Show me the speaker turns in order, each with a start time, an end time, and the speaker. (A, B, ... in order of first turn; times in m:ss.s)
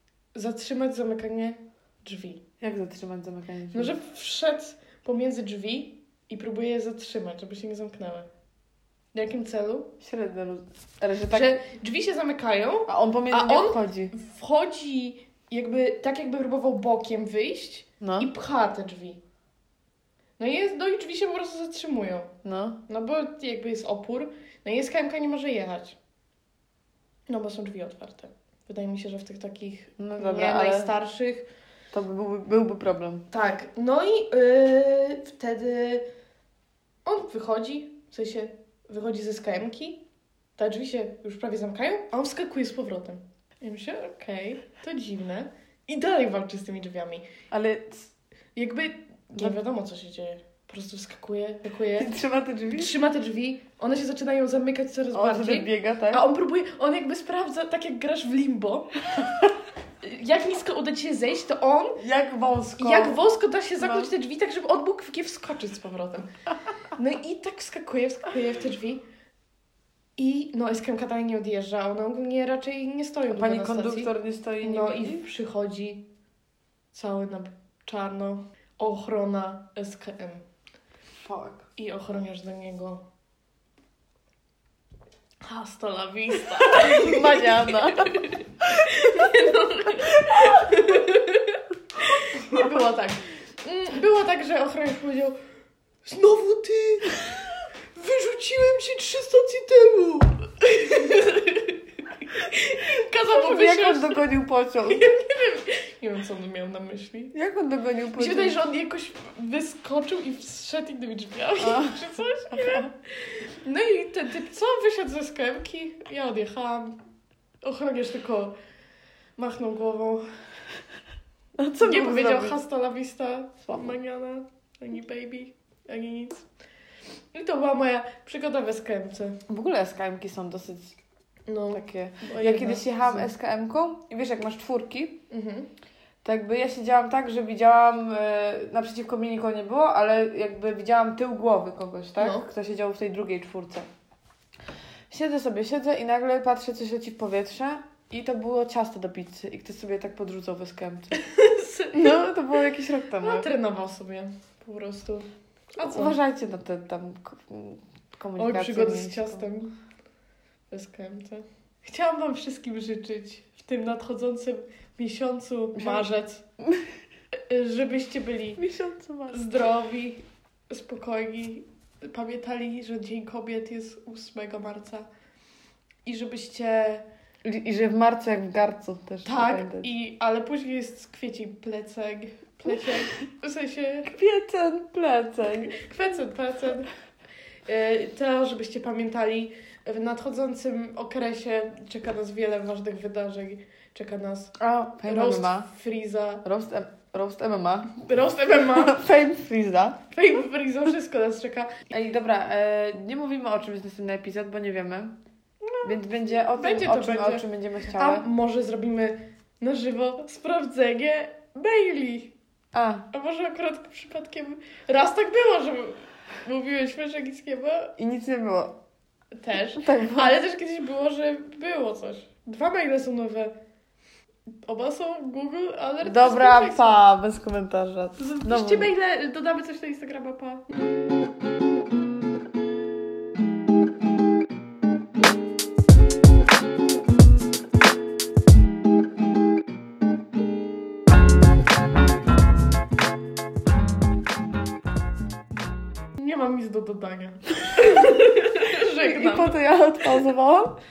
0:00.3-0:02.4 A
0:02.6-0:04.0 B
0:03.7-0:08.3 A
0:09.1-0:10.0 A
0:10.0-0:11.6 B
0:11.3-0:19.2 A
0:12.9-0:14.1 B
0:18.0-0:18.3 B
0:20.4-0:22.3 A
0:22.4-0:22.8 B
0:22.9-0:26.0 A
0:27.3-0:31.5 A
0:30.0-0:30.9 B
0:31.9-0:33.3 B
0:33.3-0:36.1 A
0:37.0-0:40.0 A
0:40.6-0:47.3 A
0:47.5-0:48.1 B
0:48.6-0:52.1 A
0:52.0-0:53.0 B
0:52.7-0:59.0 A
0:55.1-0:56.3 B
0:59.1-0:59.5 B
1:00.0-1:02.0 A
1:02.0-1:03.2 B
1:02.8-1:06.3 A
1:03.8-1:04.1 B
1:07.0-1:09.0 A
1:10.2-1:14.1 A
1:13.3-1:15.2 B
1:14.6-1:16.1 A
1:16.9-1:20.4 A
1:21.2-1:21.7 B
1:21.8-1:23.1 A
1:25.4-1:35.4 A
1:26.7-1:28.3 B
1:36.0-1:44.3 A
1:43.3-1:45.2 B
1:44.9-1:47.3 A
1:47.3-1:48.6 B
1:48.2-1:57.0 A
1:51.6-1:52.9 B
1:57.6-1:58.6 A
1:59.4-2:00.3 A
2:01.6-2:02.6 B
2:01.8-2:06.5 A
2:07.3-2:09.4 A
2:09.5-2:11.0 B
2:11.5-2:13.3 A
2:11.7-2:15.2 B
2:15.3-2:15.7 A
2:16.2-2:23.9 B
2:22.2-2:22.5 A
2:25.1-2:31.2 B
2:31.1-2:32.2 A
2:31.9-2:33.5 B
2:33.2-2:36.2 A
2:35.8-2:39.5 B
2:38.4-2:39.7 A
2:40.7-2:46.5 A
2:45.8-2:46.0 B
2:47.3-2:48.6 A
2:48.6-2:49.5 B
2:49.3-2:55.1 A
2:56.0-2:57.1 A
2:57.4-2:59.9 B
2:59.2-3:04.1 A
3:04.0-3:05.8 B
3:05.6-3:06.9 A
3:07.7-3:14.5 A
3:14.6-3:15.7 B
3:15.0-3:16.4 A
3:16.4-3:20.0 B
3:18.0-3:19.0 A
3:20.1-3:21.8 A
3:21.9-3:25.2 B
3:25.6-3:26.0 A
3:25.8-3:28.3 B
3:26.5-3:32.3 A
3:32.7-3:33.1 B
3:33.1-3:38.0 A
3:38.0-3:38.8 B
3:39.4-3:43.6 A
3:39.8-3:40.4 B
3:44.7-3:47.0 A
3:46.0-3:48.9 B
3:48.2-3:50.7 A
4:06.2-4:09.6 A
4:07.8-4:10.8 B